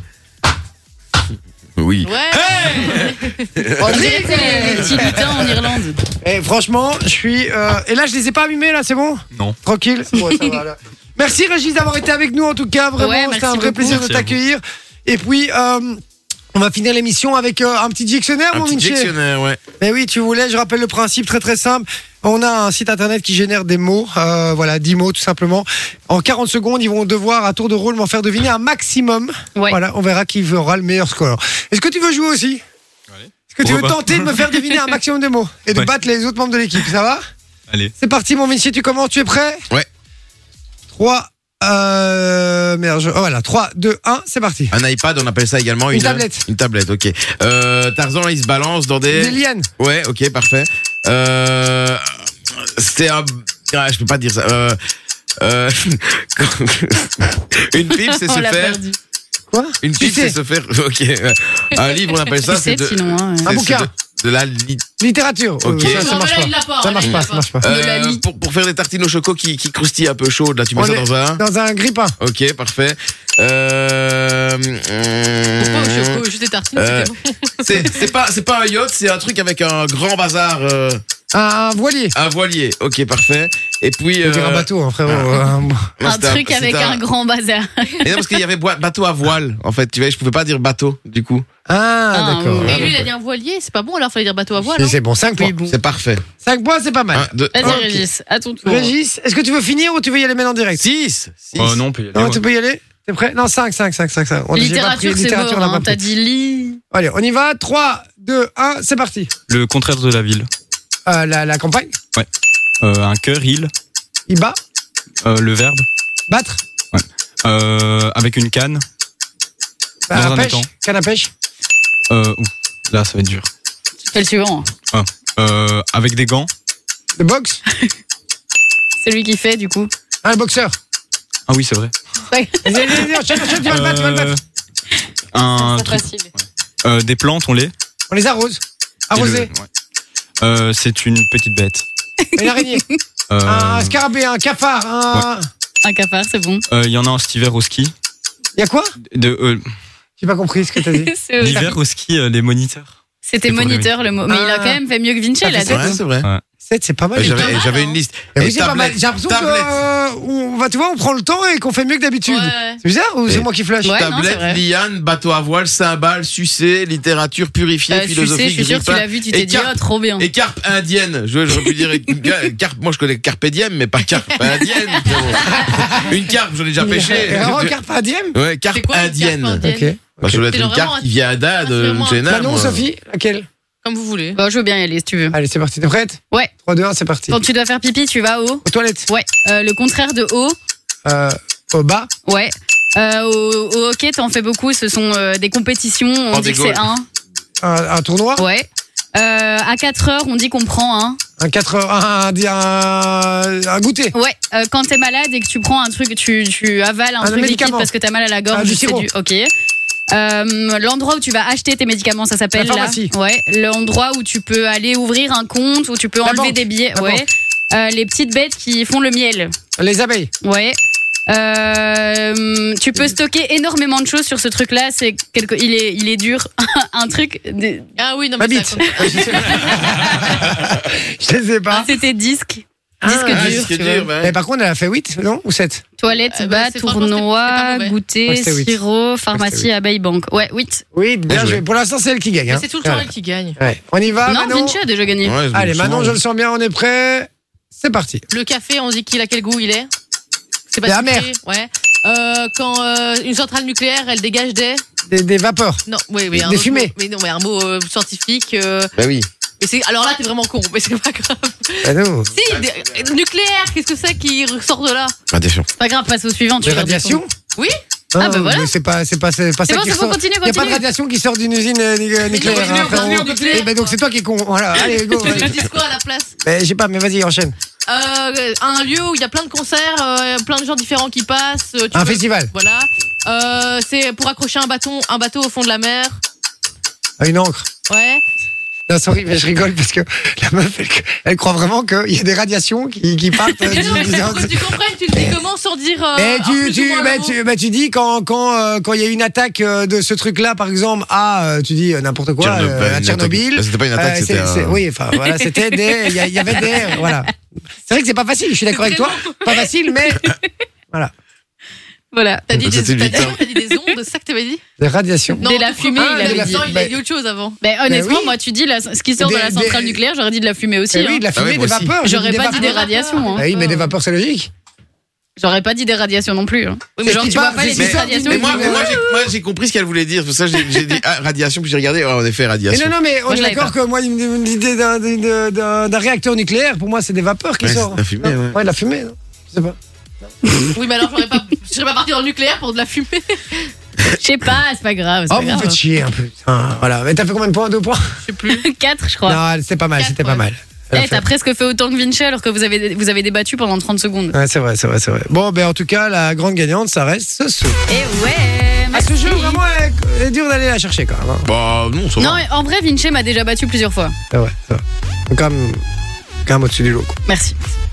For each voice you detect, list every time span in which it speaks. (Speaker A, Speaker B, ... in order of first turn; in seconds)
Speaker A: 1.8-5.5, 18.5-19.6, 44.7-54.8, 55.4-58.8, 59.8-64.8, 65.6-66.2, 67.0-71.4, 72.2-76.2, 76.8-81.0, 82.2-85.5, 86.0-87.0, 88.0-91.5, 92.6-93.1, 95.6-96.2, 97.1-97.9, 100.8-101.8, 155.6-156.3, 157.2-159.7, 163.3-177.8, 178.3-179.7, 180.2-182.9, 196.3-196.9, 233.3-234.3, 241.3-241.6, 245.2-246.2, 259.0-259.3, 262.4-263.1, 265.3-265.7, 272.4-273.4, 302.4-304.8, 312.5-313.4, 321.3-322.0, 327.8-332.9, 337.6-338.6, 361.5-362.4
Speaker B: 2.0-3.7, 4.4-4.8, 65.8-67.5, 75.6-78.1, 92.6-95.5, 157.3-158.0, 162.3-162.8, 174.4-175.7, 178.7-179.9, 180.5-182.3, 183.8-184.4, 228.0-229.8, 236.3-238.0, 242.5-243.6, 248.3-249.9, 250.7-254.8, 255.9-258.9, 259.6-265.1, 272.2-274.0, 274.8-276.3, 277.9-286.2, 287.9-288.2, 293.6-297.4, 308.7-309.6, 312.5-314.6, 315.4-317.6, 322.2-323.9, 327.0-329.3, 330.6-331.0, 340.7-343.7, 348.2-348.7, 350.0-350.4
Speaker C: 3.8-5.5, 6.2-16.0, 16.5-19.2, 19.8-32.6, 33.5-37.2, 38.0-39.6, 40.9-44.7, 45.9-46.5, 49.1-49.7, 59.5-60.4, 63.4-63.9, 65.0-67.7, 70.7-72.2, 81.3-82.2, 84.2-86.0, 91.7-92.9, 94.7-95.7, 96.4-98.0, 98.6-100.8, 102.2-106.0, 106.9-109.3, 111.1-112.0, 114.3-114.6, 116.3-116.6, 120.1-121.3, 127.2-127.6, 130.2-130.8, 132.6-134.3, 138.1-139.5, 142.4-142.8, 143.4-145.5, 148.6-148.9, 150.2-151.1, 154.3-154.8, 155.4-156.0, 156.7-157.6, 158.4-164.0, 175.4-176.1, 176.8-178.4, 179.6-180.5, 182.3-183.5, 185.3-187.4, 188.7-189.1, 191.1-192.1, 197.6-198.5, 201.4-204.1, 207.2-207.9, 208.5-209.1, 212.5-213.1, 216.2-217.2, 219.8-220.3, 228.4-231.9, 233.0-235.8, 238.3-238.8, 239.3-239.7, 240.9-244.8, 245.5-248.2, 250.8-251.3, 255.1-256.9, 261.8-262.3, 266.6-267.3, 268.1-275.6, 276.4-277.6, 281.9-282.5, 287.2-287.7, 288.9-295.4, 296.1-307.3, 307.9-310.3, 314.8-315.4, 316.0-316.9, 317.9-318.4, 319.2-320.0, 320.9-324.5, 327.1-329.0, 332.7-340.6, 345.3-348.1, 349.3-351.2, 354.3-357.8, 358.9-361.5, 364.3-365.8, 366.5-367.2
Speaker D: 3.9-6.0, 13.0-14.0, 57.9-59.0, 62.4-63.5, 67.6-68.2, 86.0-88.3, 92.1-92.7, 97.5-98.9, 104.5-106.8, 124.0-124.7, 129.0-129.9, 132.3-133.0, 135.6-136.3, 142.2-143.0, 145.8-146.6, 150.8-151.8, 153.3-156.0, 157.3-157.9, 163.8-164.6, 167.9-170.3, 184.3-185.4, 187.3-190.6, 192.3-197.1, 198.4-201.2, 204.1-209.5, 210.1-219.6, 220.4-227.9, 228.8-229.8, 231.8-234.1, 236.0-240.8, 244.2-245.4, 265.8-267.2, 268.2-268.7, 269.7-270.8, 305.4-307.1, 312.1-312.5, 313.1-313.4, 315.4-316.7, 317.6-321.2, 322.0-323.5, 325.4-329.0, 333.3-333.7, 344.1-345.8, 348.5-349.4, 350.9-354.4, 357.9-359.6, 362.2-364.1, 367.3-367.6
Speaker E: 13.8-14.4, 33.1-34.4, 101.6-102.4, 109.5-110.5, 112.8-113.7, 115.2-115.9, 116.9-118.8, 120.1-120.7, 122.1-123.5, 124.9-126.5, 131.5-131.9, 133.6-134.4, 135.3-137.7, 139.1-139.7, 140.4-141.8, 143.3-144.0, 146.7-147.9, 149.1-149.6, 151.4-153.9